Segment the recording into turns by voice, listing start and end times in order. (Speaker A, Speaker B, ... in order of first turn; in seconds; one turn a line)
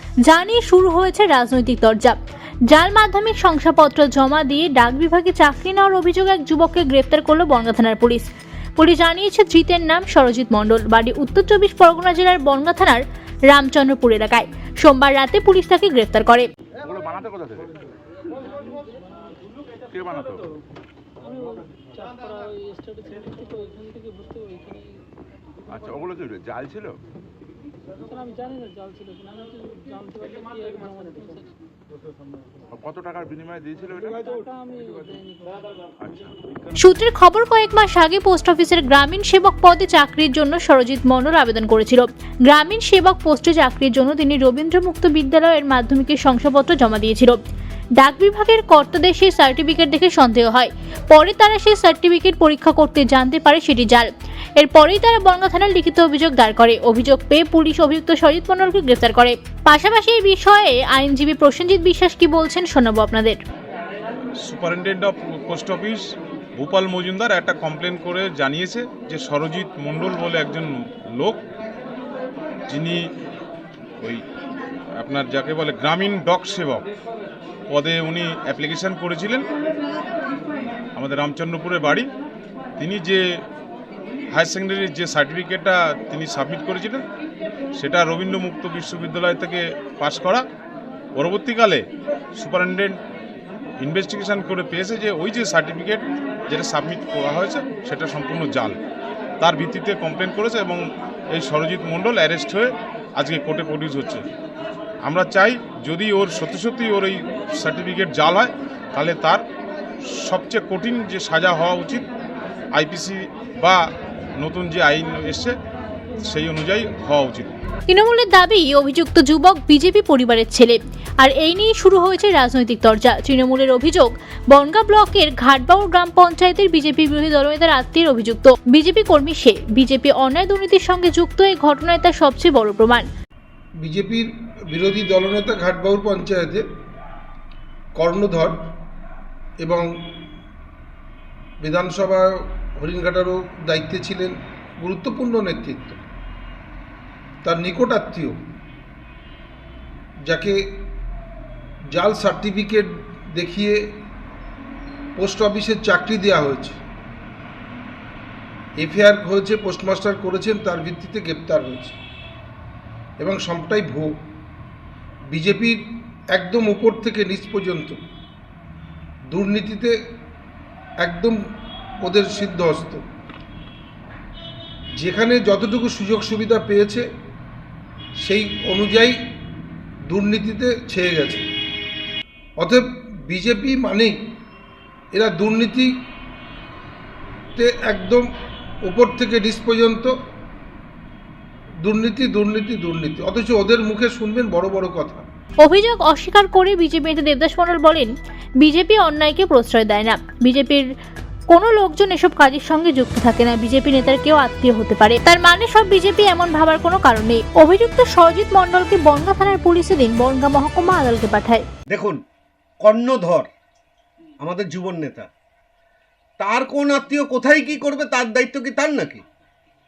Speaker A: 0.2-2.2
Speaker A: 2.7-8.2
Speaker A: 8.8-16.4
Speaker B: 16.8-17.8
Speaker B: 19.9-20.4
Speaker C: 21.4-24.9
Speaker B: 25.7-27.0
Speaker C: 28.3-31.5
Speaker B: 32.7-34.4
Speaker C: 34.5-35.6
Speaker B: 36.0-36.4
Speaker A: 36.8-47.4
Speaker A: 48.0-63.4
Speaker D: 64.4-71.4
Speaker D: 72.7-73.0
Speaker D: 75.0-76.9
Speaker D: 77.7-79.5
Speaker D: 81.0-82.1
Speaker D: 82.8-83.2
Speaker D: 84.3-87.0
Speaker D: 87.8-90.5
Speaker D: 91.1-91.8
Speaker D: 92.4-93.0
Speaker D: 93.8-98.8
Speaker D: 99.4-104.2
Speaker D: 105.0-109.4
Speaker D: 110.2-112.1
Speaker D: 112.7-113.8
Speaker D: 114.4-115.5
Speaker D: 116.2-117.6
Speaker A: 117.9-133.1
Speaker E: 133.8-136.6
Speaker E: 137.9-138.6
Speaker E: 139.6-139.9
Speaker E: 141.6-146.0
Speaker E: 147.4-148.4
Speaker E: 150.2-150.6
Speaker E: 151.9-153.8
Speaker E: 155.2-156.8
Speaker E: 158.8-162.0
Speaker E: 163.2-164.1
Speaker E: 165.3-165.8
Speaker E: 166.3-168.0
Speaker E: 169.3-169.9
Speaker E: 171.0-171.4
Speaker E: 172.0-173.0
Speaker E: 174.9-177.1
Speaker E: 178.2-179.2
Speaker E: 180.1-181.4
Speaker E: 182.6-184.2
Speaker E: 185.1-185.9
Speaker E: 187.6-188.3
Speaker E: 188.8-190.1
Speaker E: 191.8-195.2
Speaker A: 195.6-200.9
Speaker A: 201.5-211.6
Speaker F: 211.9-212.2
Speaker F: 212.8-213.5
Speaker F: 214.4-215.3
Speaker F: 216.4-219.2